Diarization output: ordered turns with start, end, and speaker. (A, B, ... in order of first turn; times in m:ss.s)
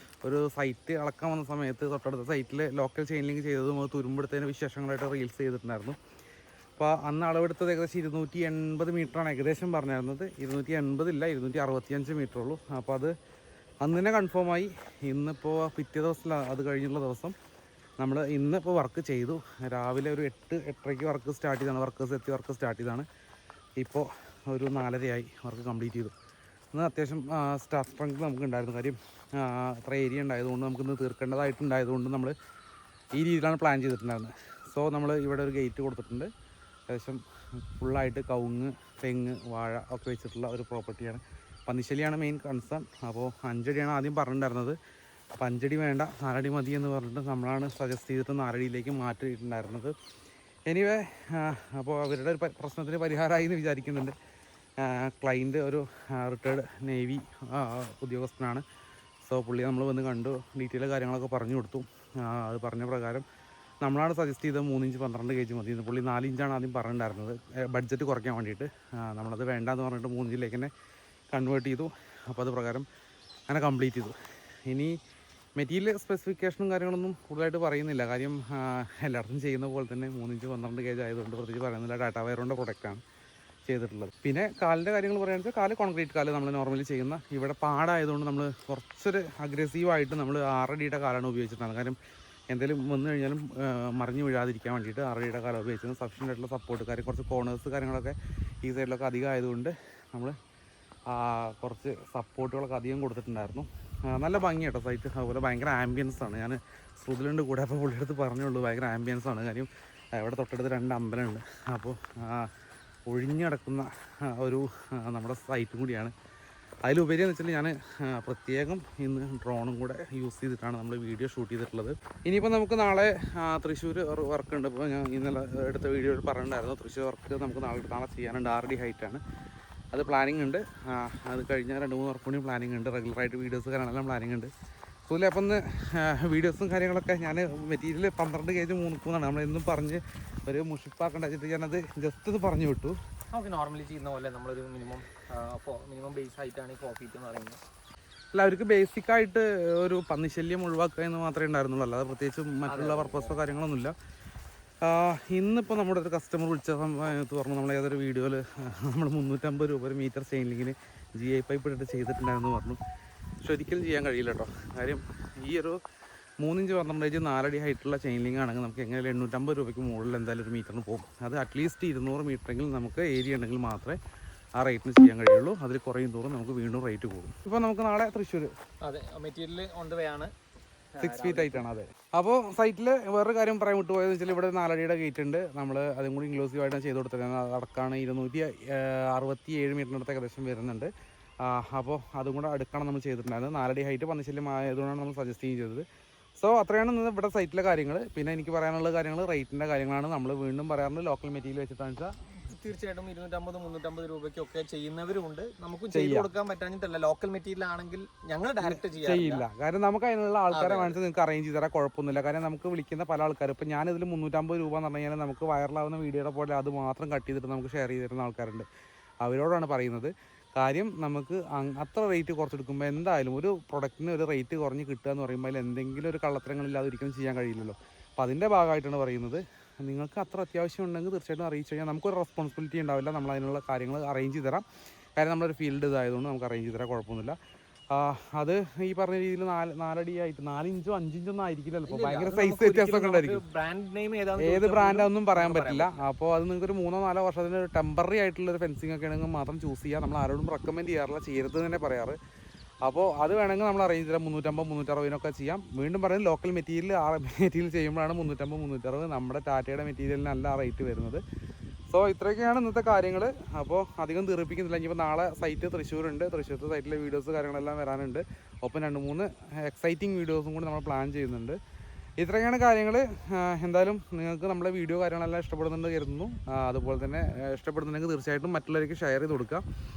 0:00.2-0:06.0 A
0:06.8-0:13.1 A
0:13.8-0:17.4 A
0:18.0-0:23.1 A
0:23.8-0:26.1 A
0:26.7-0:32.3 A
0:33.2-0:36.3 A
0:36.9-0:37.2 A
0:37.8-0:44.8 A
0:45.4-0:49.9 A
0:50.7-0:54.2 A
0:54.8-0:58.6 A
0:59.2-1:03.2 A
1:03.8-1:10.7 A
1:11.3-1:12.9 A
1:13.5-1:14.1 A
1:14.7-1:15.0 A
1:15.6-1:23.0 A
1:23.7-1:32.0 A
1:32.5-1:40.4 A
1:41.1-1:52.5 A
1:53.1-1:56.1 A
1:56.8-2:09.2 A
2:09.9-2:14.5 A
2:15.1-2:23.0 A
2:23.3-2:27.6 B
2:28.3-2:33.9 A
2:32.7-2:33.4 B
2:34.8-2:42.8 A
2:43.4-2:45.8 A
2:46.4-2:54.0 A
2:54.6-2:58.5 A
2:58.8-3:00.3 B
3:01.0-3:01.6 B
3:01.0-3:10.9 A
3:11.4-3:15.8 A
3:16.4-3:22.1 A
3:22.5-3:29.4 B
3:25.9-3:26.3 A
3:28.6-3:38.7 A
3:30.5-3:31.0 B
3:39.2-3:54.6 A
3:55.2-3:57.4 A
3:57.9-4:03.4 A
4:01.9-4:06.0 B
4:04.4-4:12.2 A
4:12.8-4:21.2 A
4:21.9-4:31.6 A
4:32.2-4:39.6 A